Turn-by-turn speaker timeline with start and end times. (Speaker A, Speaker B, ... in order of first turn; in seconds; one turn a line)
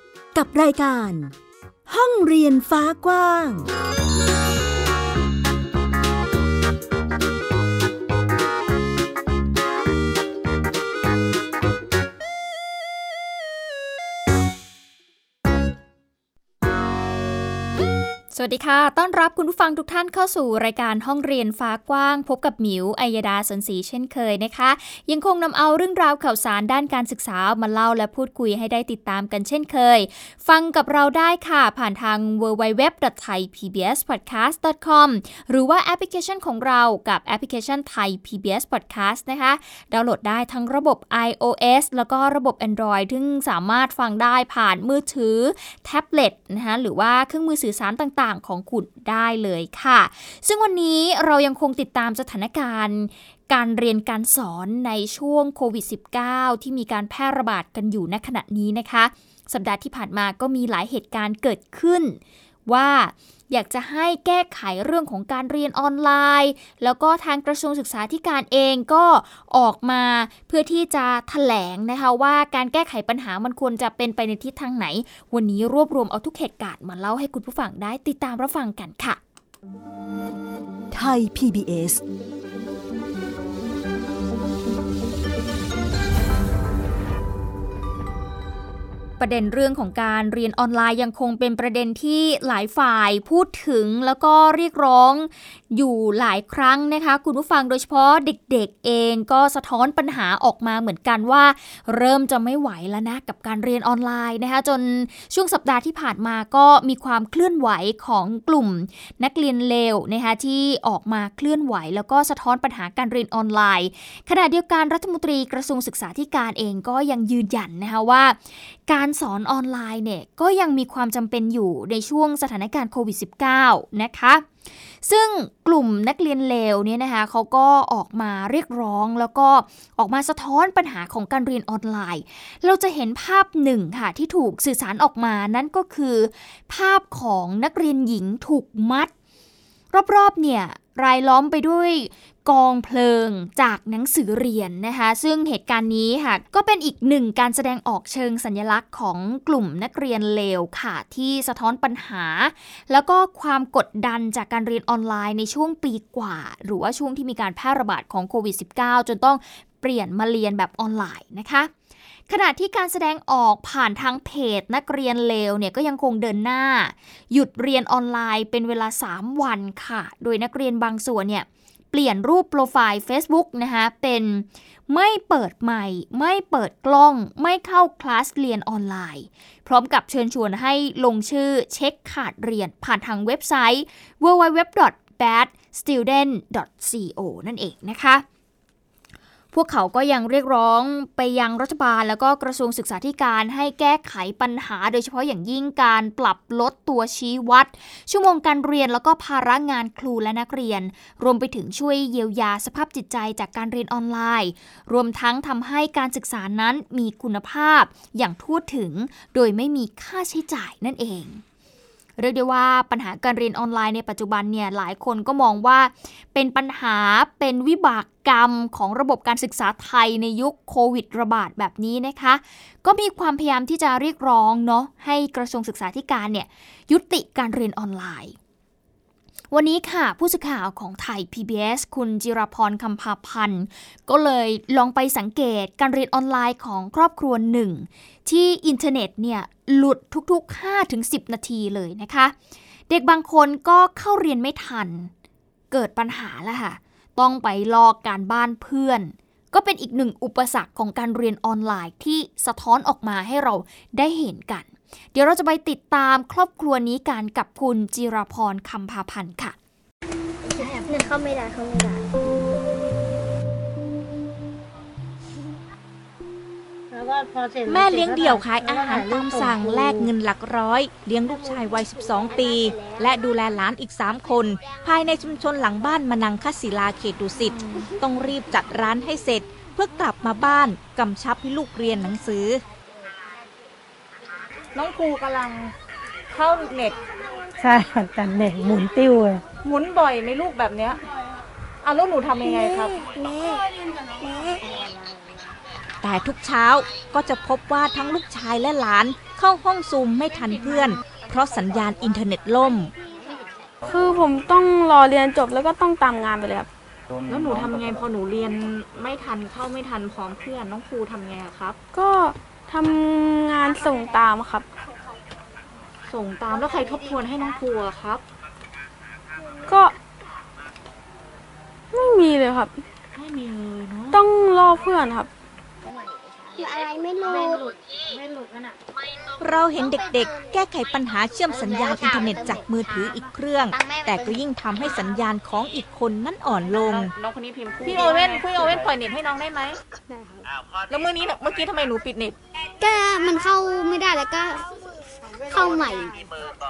Speaker A: 0.3-1.3
Speaker A: 1.9-3.7
Speaker B: 18.3-79.2
Speaker A: 80.9-82.0
Speaker B: 89.2-124.5
Speaker B: 125.0-139.1
Speaker B: 139.9-161.7
Speaker B: 162.3-188.2
Speaker B: 189.5-211.4
Speaker B: 212.2-228.3
Speaker B: 229.5-242.3
Speaker B: 242.9-245.1
Speaker B: 245.7-259.5
Speaker C: 260.4-262.1
Speaker D: 266.9-270.1
Speaker E: 267.6-282.6
Speaker C: 272.3-273.0
Speaker F: 284.7-285.7
Speaker F: 286.3-286.9
Speaker D: 287.6-289.4
Speaker F: 289.6-291.0
Speaker F: 291.8-293.0
Speaker D: 293.2-293.6
Speaker E: 296.0-302.9
Speaker G: 303.9-306.7
Speaker F: 307.3-311.8
Speaker G: 311.9-314.7
Speaker F: 316.1-318.2
Speaker G: 319.7-319.9
Speaker G: 321.9-322.8
Speaker F: 323.1-324.2
Speaker G: 324.1-325.3
Speaker C: 326.5-327.7
Speaker E: 329.4-337.1
Speaker C: 329.8-330.5
Speaker C: 331.5-332.6
Speaker C: 333.7-334.4
Speaker F: 337.0-339.8
Speaker F: 340.9-342.4
Speaker C: 342.8-344.7
Speaker C: 345.5-346.1